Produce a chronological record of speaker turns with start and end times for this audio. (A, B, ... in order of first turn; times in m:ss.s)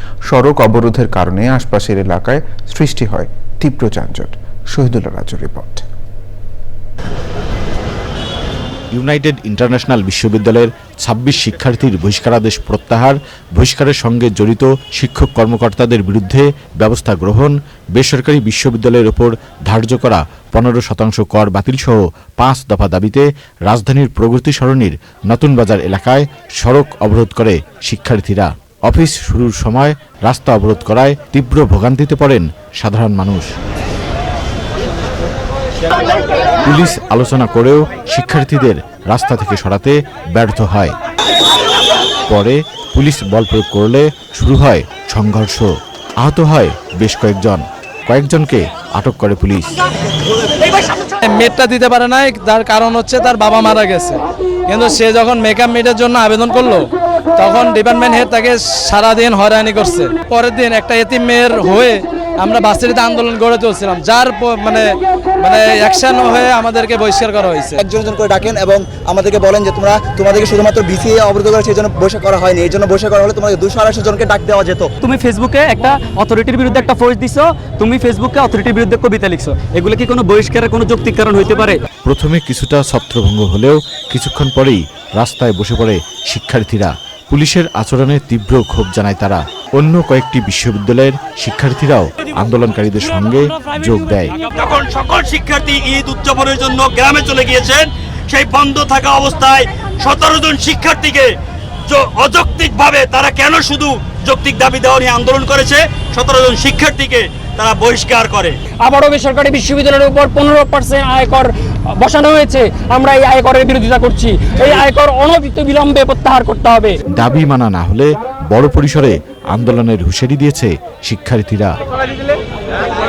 0:00.3-0:05.8 A
0:08.9-0:33.5 B
0:36.6-0:41.0 B
0:42.3-0:49.8 B
0:51.3-0:56.8 C
0:57.4-1:04.9 C
1:05.4-1:07.8 C
1:07.8-1:14.9 D
1:15.0-1:21.8 E
1:22.1-1:34.3 B
1:34.4-1:41.3 F
1:41.9-1:48.6 F
1:48.8-1:57.0 G
1:57.2-2:01.7 B